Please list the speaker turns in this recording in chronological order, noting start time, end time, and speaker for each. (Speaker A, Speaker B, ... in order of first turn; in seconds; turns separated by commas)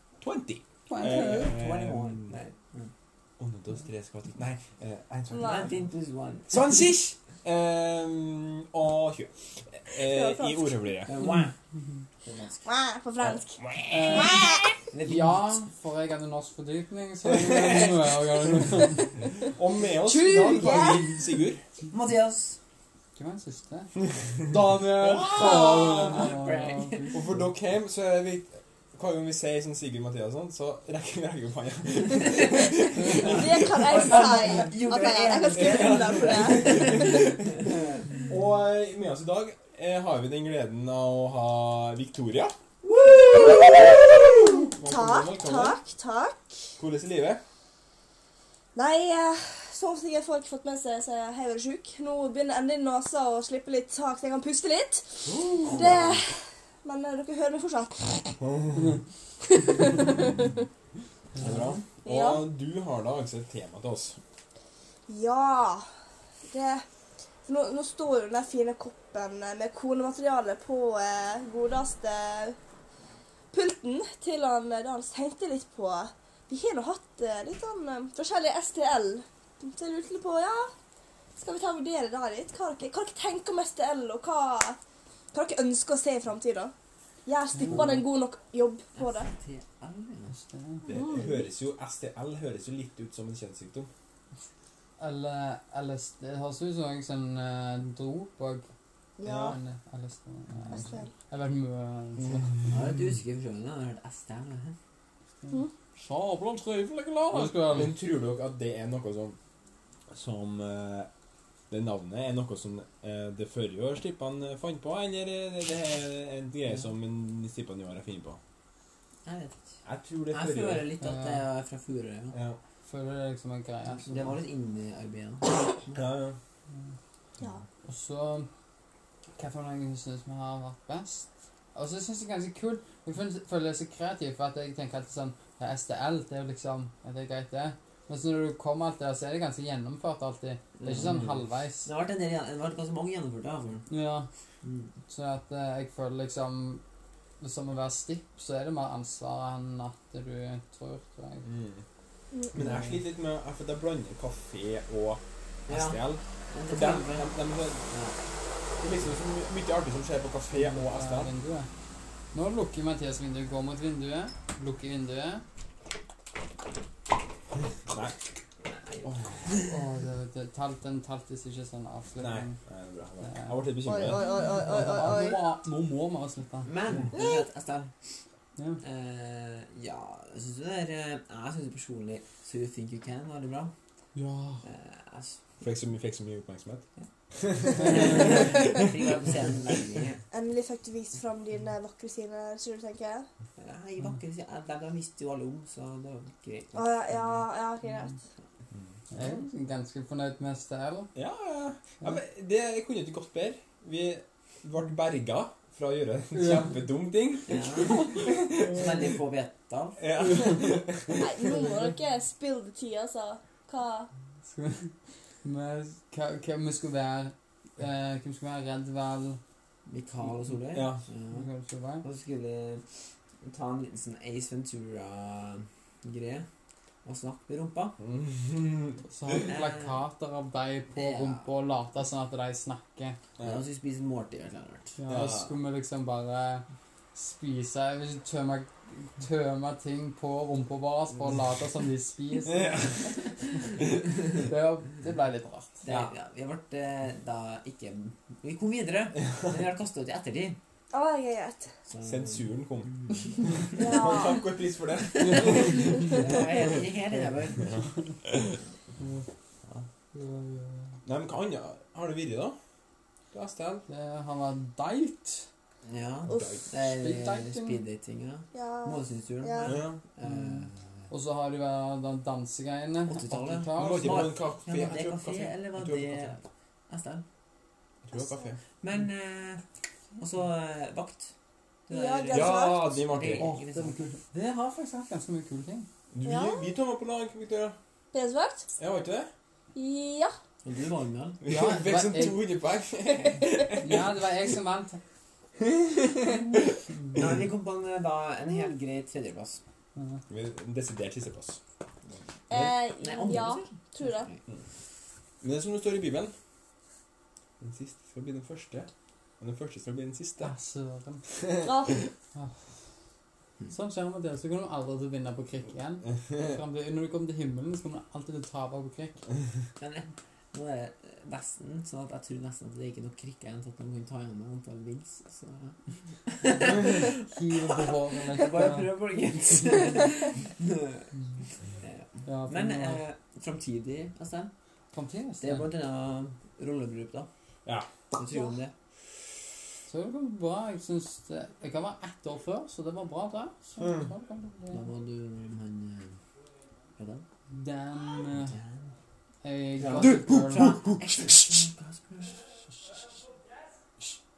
Speaker A: 0.2-2.4, Speaker B: 0.9-1.6, Speaker C: 1.4-2.9, Speaker A: 3.4-5.7, Speaker D: 5.3-5.7, Speaker C: 5.4-6.5, Speaker A: 6.5-11.1, Speaker D: 9.9-10.9, Speaker C: 11.1-11.5, Speaker C: 12.2-12.6, Speaker D: 12.6-14.8, Speaker A: 13.2-14.2, Speaker B: 13.9-14.4, Speaker C: 14.9-15.6, Speaker B: 15.1-19.1, Speaker A: 17.2-18.3, Speaker A: 19.4-21.6, Speaker D: 19.8-21.2, Speaker B: 20.3-21.2, Speaker C: 21.9-22.6, Speaker B: 23.1-27.4, Speaker A: 25.0-25.5, Speaker C: 25.0-27.1, Speaker A: 27.1-33.9, Speaker D: 33.0-37.2, Speaker C: 33.9-37.2, Speaker A: 35.5-37.7, Speaker A: 38.2-42.5, Speaker C: 42.9-43.5, Speaker D: 43.0-46.7, Speaker A: 43.7-45.8, Speaker A: 46.8-47.4, Speaker D: 48.7-58.4, Speaker A: 55.2-56.2, Speaker D: 59.5-60.5, Speaker B: 61.3-61.7, Speaker A: 61.4-64.2, Speaker C: 61.4-61.8, Speaker D: 62.0-62.4, Speaker D: 65.1-65.8, Speaker D: 66.5-66.8, Speaker D: 67.5-72.6, Speaker D: 73.5-80.7, Speaker D: 81.4-84.8, Speaker D: 85.3-86.7, Speaker D: 87.2-89.3, Speaker B: 87.5-88.0, Speaker C: 88.9-90.3, Speaker B: 90.3-90.9, Speaker A: 90.8-93.9, Speaker D: 90.9-91.4, Speaker B: 95.0-98.7, Speaker D: 99.2-99.6, Speaker A: 99.2-99.6, Speaker B: 99.5-102.5, Speaker D: 100.7-101.1, Speaker C: 102.7-104.8, Speaker B: 105.5-108.0, Speaker A: 107.3-109.4, Speaker A: 110.1-111.1, Speaker A: 111.7-118.4, Speaker C: 119.2-119.6, Speaker A: 119.8-120.8, Speaker C: 120.3-122.3, Speaker B: 121.0-121.5, Speaker A: 122.3-122.6, Speaker B: 122.8-124.3, Speaker C: 124.0-126.0, Speaker A: 125.9-126.4, Speaker B: 127.8-128.5, Speaker B: 129.3-141.9, Speaker C: 140.8-141.1, Speaker A: 140.9-141.4, Speaker C: 141.8-143.8, Speaker B: 143.9-144.3, Speaker C: 144.6-144.9, Speaker B: 145.1-146.8, Speaker B: 147.4-151.4, Speaker A: 151.4-151.8, Speaker A: 152.5-157.9, Speaker B: 152.5-153.0, Speaker C: 155.7-157.3, Speaker C: 157.9-158.2, Speaker A: 158.8-161.3, Speaker B: 160.5-161.7, Speaker B: 162.3-165.4, Speaker A: 167.9-168.2, Speaker C: 168.7-169.6, Speaker A: 169.0-169.5, Speaker B: 169.6-172.6, Speaker A: 172.2-174.2, Speaker B: 173.2-176.7, Speaker D: 173.8-175.4, Speaker C: 176.6-177.9, Speaker D: 177.1-177.4, Speaker C: 178.8-183.7, Speaker B: 184.1-184.6, Speaker C: 184.6-185.4, Speaker A: 185.6-186.9, Speaker A: 187.4-188.8, Speaker C: 187.8-190.2, Speaker B: 187.8-188.4, Speaker D: 188.0-188.5, Speaker D: 190.3-193.3, Speaker C: 193.6-196.9, Speaker D: 196.7-198.2, Speaker B: 199.1-201.1, Speaker A: 201.1-209.1, Speaker B: 206.3-206.8, Speaker C: 207.5-210.0, Speaker A: 210.0-211.3, Speaker D: 211.2-214.1, Speaker B: 214.4-219.4, Speaker C: 219.8-221.5, Speaker A: 220.7-221.0, Speaker B: 221.3-222.1, Speaker C: 222.0-222.8, Speaker C: 223.4-226.5, Speaker C: 227.0-227.9, Speaker A: 228.0-229.0, Speaker B: 229.0-233.2, Speaker C: 229.5-230.0, Speaker C: 230.9-231.4, Speaker C: 233.4-235.0, Speaker B: 235.0-243.4, Speaker A: 235.1-235.5, Speaker A: 242.5-243.0, Speaker B: 244.3-245.8, Speaker C: 245.8-250.6, Speaker A: 245.9-246.1, Speaker D: 250.9-251.7, Speaker C: 251.9-252.4, Speaker A: 252.0-252.9, Speaker A: 253.5-256.2, Speaker D: 253.8-254.5, Speaker D: 255.7-256.1, Speaker C: 256.1-257.7, Speaker A: 257.6-258.6, Speaker B: 259.0-259.2, Speaker B: 260.1-260.9, Speaker A: 261.1-262.6, Speaker A: 263.3-263.8, Speaker B: 263.9-265.5, Speaker C: 265.9-270.8, Speaker D: 266.2-266.6, Speaker A: 266.3-266.7, Speaker B: 266.9-267.8, Speaker D: 268.5-269.8, Speaker A: 269.6-270.0, Speaker B: 270.2-274.3, Speaker C: 273.1-277.2, Speaker A: 273.8-276.4, Speaker A: 278.0-278.6, Speaker D: 278.1-278.5, Speaker C: 278.8-279.6, Speaker C: 280.2-281.3, Speaker C: 281.9-284.0, Speaker D: 281.9-282.9, Speaker A: 282.3-283.4, Speaker B: 283.4-285.9, Speaker A: 286.1-287.8, Speaker D: 286.2-286.8, Speaker D: 288.1-288.7, Speaker A: 288.8-289.3, Speaker D: 289.7-290.3, Speaker C: 290.6-291.4, Speaker A: 291.4-294.0, Speaker B: 291.4-292.4, Speaker B: 293.8-295.0, Speaker A: 295.6-296.5, Speaker C: 297.1-299.6, Speaker B: 299.9-300.2, Speaker A: 300.3-301.6, Speaker D: 302.5-304.3, Speaker A: 302.5-302.7, Speaker C: 303.0-304.4, Speaker A: 305.4-306.3, Speaker A: 307.6-308.9, Speaker A: 309.4-310.5, Speaker B: 310.4-311.2, Speaker D: 311.6-312.1, Speaker B: 312.3-312.7, Speaker B: 313.7-319.1, Speaker C: 319.8-327.2, Speaker B: 327.2-328.9, Speaker C: 328.3-331.1, Speaker C: 331.8-334.5, Speaker B: 332.2-333.0, Speaker B: 334.9-335.7, Speaker C: 335.4-337.3, Speaker C: 338.1-338.7, Speaker B: 339.9-344.8, Speaker A: 343.8-344.1, Speaker C: 344.7-346.2, Speaker C: 347.0-347.2, Speaker B: 347.5-348.6, Speaker C: 348.5-348.9, Speaker B: 349.4-350.8, Speaker C: 349.8-353.2, Speaker A: 349.9-351.6